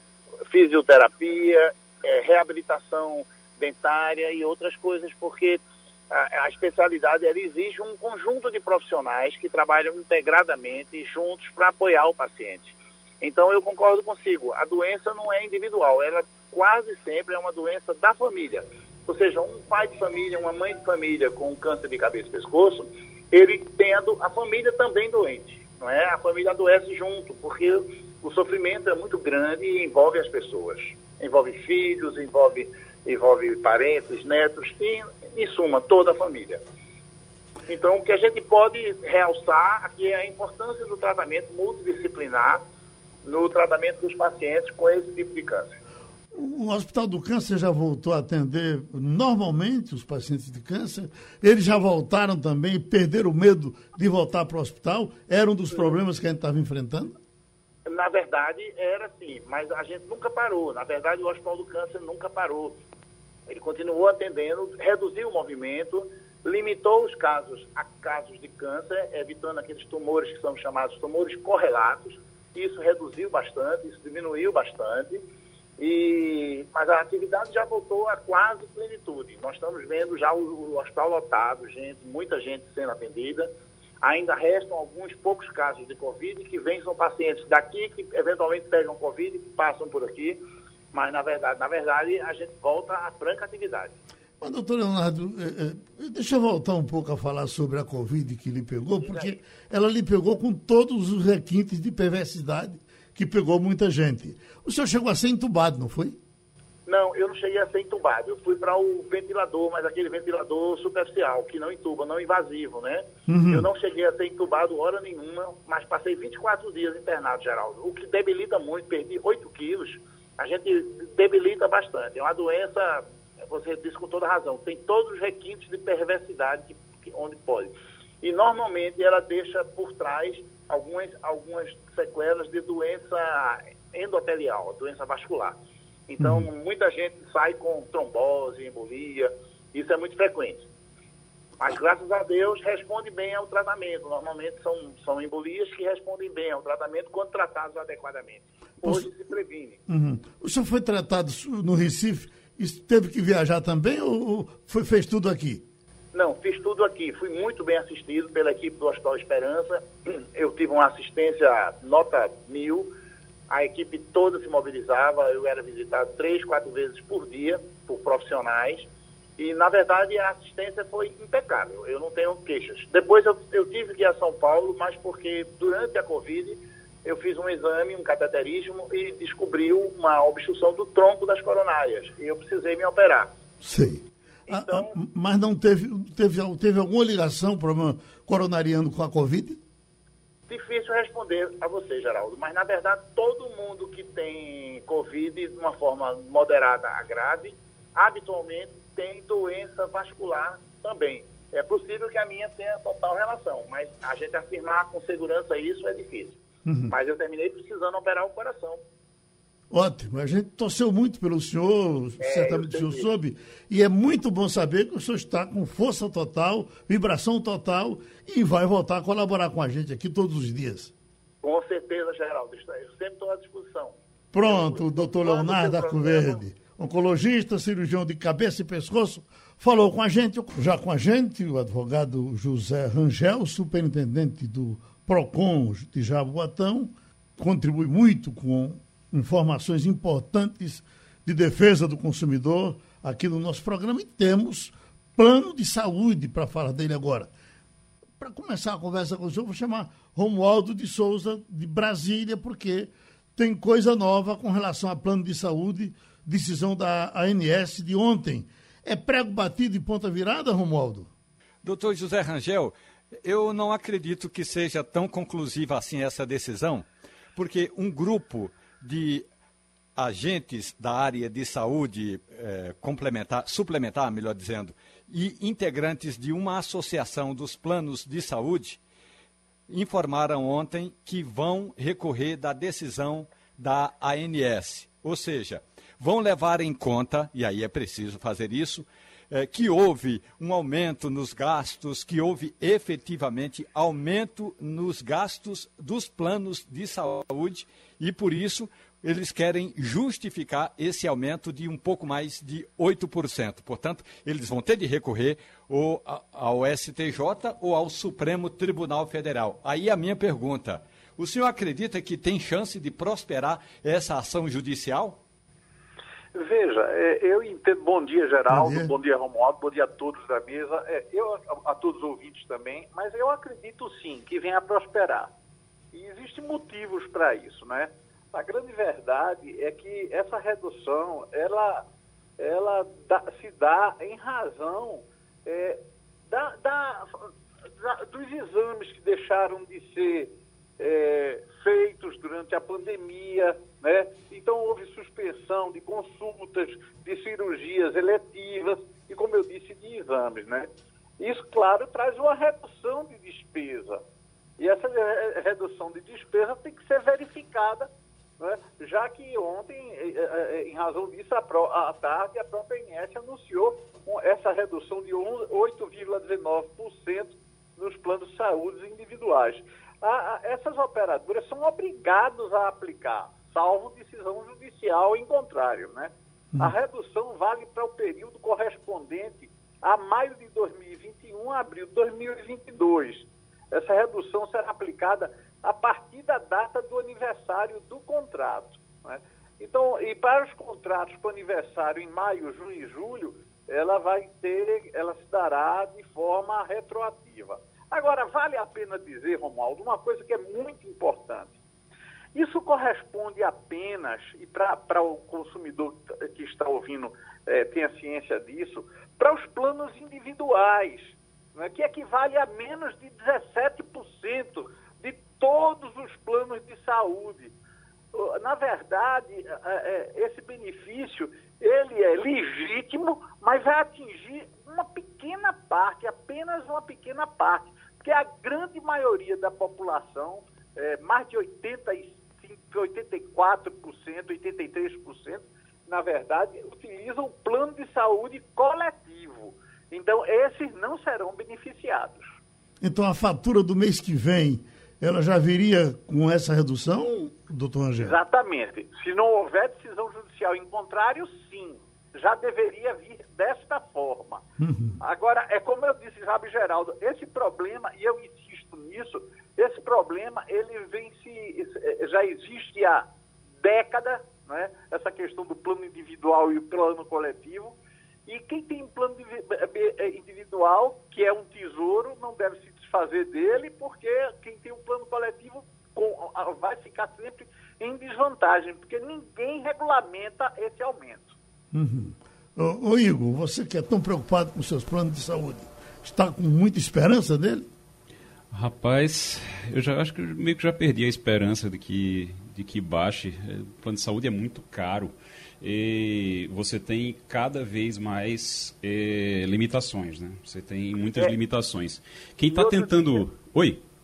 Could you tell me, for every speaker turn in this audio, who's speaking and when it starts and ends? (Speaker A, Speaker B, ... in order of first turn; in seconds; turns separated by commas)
Speaker A: 0.5-36.6, Speaker A: 37.7-42.6, Speaker A: 43.2-45.7, Speaker B: 46.3-57.1, Speaker A: 57.9-62.8, Speaker A: 63.5-75.2, Speaker A: 75.8-83.5, Speaker A: 84.0-90.4, Speaker A: 90.9-94.0, Speaker B: 94.4-106.2, Speaker A: 99.0-99.3, Speaker A: 106.8-140.7, Speaker B: 113.3-113.7, Speaker B: 136.2-136.5, Speaker A: 141.6-149.8, Speaker B: 148.8-149.1, Speaker B: 149.9-155.6, Speaker A: 156.1-162.9, Speaker A: 163.5-183.3, Speaker B: 183.6-189.6, Speaker A: 184.5-184.9, Speaker A: 190.5-208.8, Speaker B: 206.7-206.9, Speaker B: 209.7-220.9, Speaker A: 212.2-213.0, Speaker A: 221.4-226.4, Speaker B: 224.3-247.3, Speaker B: 248.2-261.1, Speaker C: 261.6-269.2, Speaker C: 269.9-278.8, Speaker C: 279.7-315.2, Speaker D: 316.3-325.3, Speaker B: 318.5-318.9, Speaker D: 325.9-331.8, Speaker D: 332.4-337.3, Speaker D: 337.8-354.0, Speaker D: 354.6-401.5, Speaker D: 402.3-417.5, Speaker D: 418.1-442.4, Speaker B: 442.8-448.2, Speaker D: 448.0-454.4, Speaker B: 454.6-455.0, Speaker D: 455.0-463.1, Speaker D: 463.6-467.8, Speaker D: 468.3-481.4, Speaker B: 481.7-487.7, Speaker E: 488.5-503.8, Speaker D: 502.5-503.2